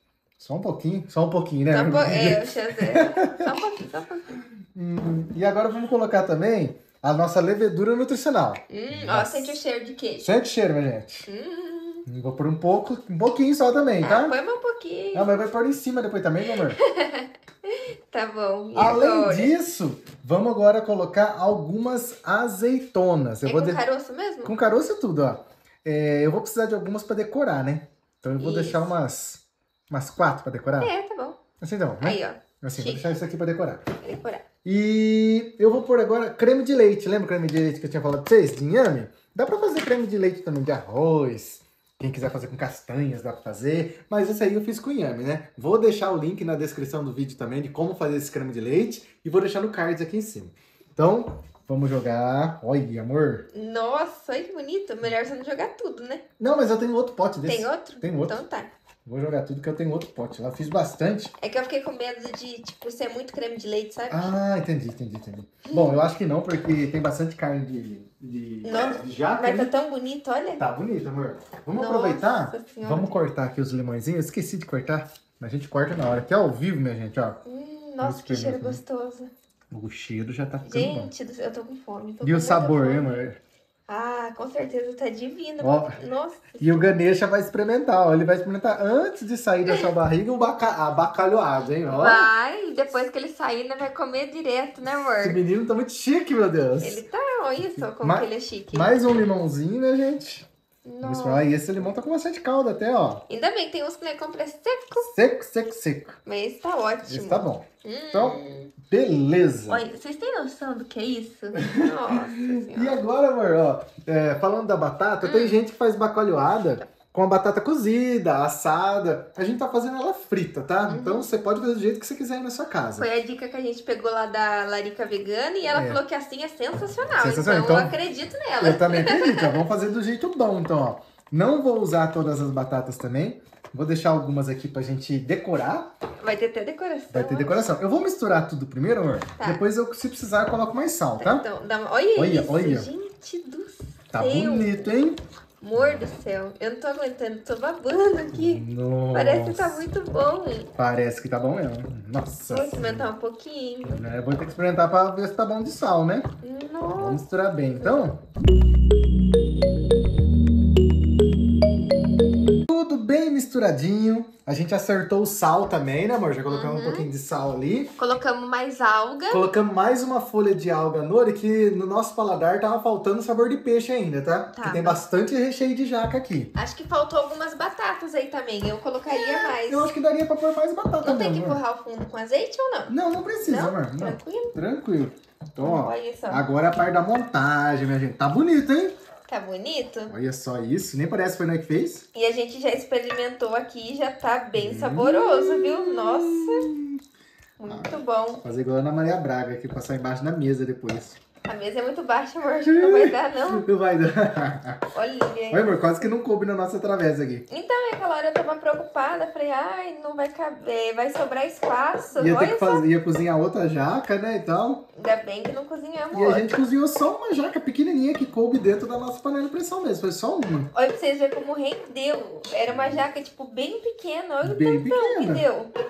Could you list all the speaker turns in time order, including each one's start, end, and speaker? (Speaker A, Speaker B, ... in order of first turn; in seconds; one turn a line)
Speaker A: 0.4-3.5
Speaker B: 1.7-4.3
Speaker A: 4.7-9.6
Speaker B: 8.7-10.3
Speaker A: 10.2-11.3
Speaker B: 11.3-12.1
Speaker A: 12.1-14.3
Speaker B: 14.0-15.3
Speaker A: 15.1-16.8
Speaker B: 16.7-19.5
Speaker A: 18.8-23.8
Speaker B: 23.4-24.6
Speaker A: 24.4-30.9
Speaker B: 28.4-28.9
Speaker B: 30.8-31.4
Speaker A: 31.6-33.8
Speaker B: 32.0-33.0
Speaker B: 34.0-34.5
Speaker A: 34.6-53.5
Speaker B: 53.5-56.2
Speaker A: 56.4-58.4
Speaker B: 57.5-58.7
Speaker A: 59.0-61.3
Speaker B: 61.4-64.3
Speaker A: 64.1-69.7
Speaker B: 65.7-66.0
Speaker B: 68.6-70.6
Speaker A: 70.6-77.4
Speaker B: 71.7-73.2
Speaker B: 77.4-79.3
Speaker A: 78.0-78.8
Speaker A: 79.7-81.1
Speaker B: 80.6-83.1
Speaker A: 82.2-83.4
Speaker B: 83.9-87.0
Speaker A: 85.6-86.0
Speaker A: 86.6-92.3
Speaker B: 89.7-89.9
Speaker B: 91.9-95.4
Speaker A: 94.8-97.0
Speaker B: 96.8-99.0
Speaker A: 98.0-100.5
Speaker B: 100.8-101.4
Speaker A: 101.0-103.2
Speaker B: 103.3-105.1
Speaker A: 105.0-106.2
Speaker B: 106.2-108.7
Speaker A: 107.0-109.8
Speaker B: 109.7-113.0
Speaker A: 111.5-123.1
Speaker B: 115.2-115.6
Speaker B: 120.8-121.3
Speaker B: 123.0-129.6
Speaker A: 125.7-126.0
Speaker A: 127.2-127.9
Speaker A: 128.6-135.9
Speaker B: 136.2-137.7
Speaker A: 137.1-141.4
Speaker B: 141.2-144.9
Speaker A: 142.2-142.9
Speaker A: 144.1-145.2
Speaker B: 145.6-150.7
Speaker A: 145.7-146.1
Speaker A: 148.3-149.8
Speaker A: 150.8-153.1
Speaker B: 152.5-154.0
Speaker A: 153.8-156.3
Speaker B: 156.4-157.2
Speaker A: 157.0-158.2
Speaker B: 157.8-158.1
Speaker A: 162.7-167.9
Speaker B: 166.5-167.1
Speaker B: 168.0-169.5
Speaker A: 169.3-176.5
Speaker B: 174.5-175.0
Speaker B: 176.5-179.9
Speaker A: 179.1-181.6
Speaker B: 181.0-182.9
Speaker A: 182.9-188.9
Speaker B: 183.4-184.5
Speaker B: 185.6-186.4
Speaker B: 189.3-190.1
Speaker A: 190.1-192.1
Speaker B: 192.1-196.7
Speaker A: 194.6-197.0
Speaker B: 197.6-198.4
Speaker A: 197.7-201.2
Speaker B: 201.4-203.7
Speaker A: 202.6-204.9
Speaker B: 204.9-205.8
Speaker A: 205.5-207.4
Speaker B: 207.5-212.8
Speaker A: 212.2-214.8
Speaker B: 214.9-216.5
Speaker A: 216.1-220.7
Speaker B: 220.7-225.7
Speaker A: 222.7-223.0
Speaker A: 224.4-225.4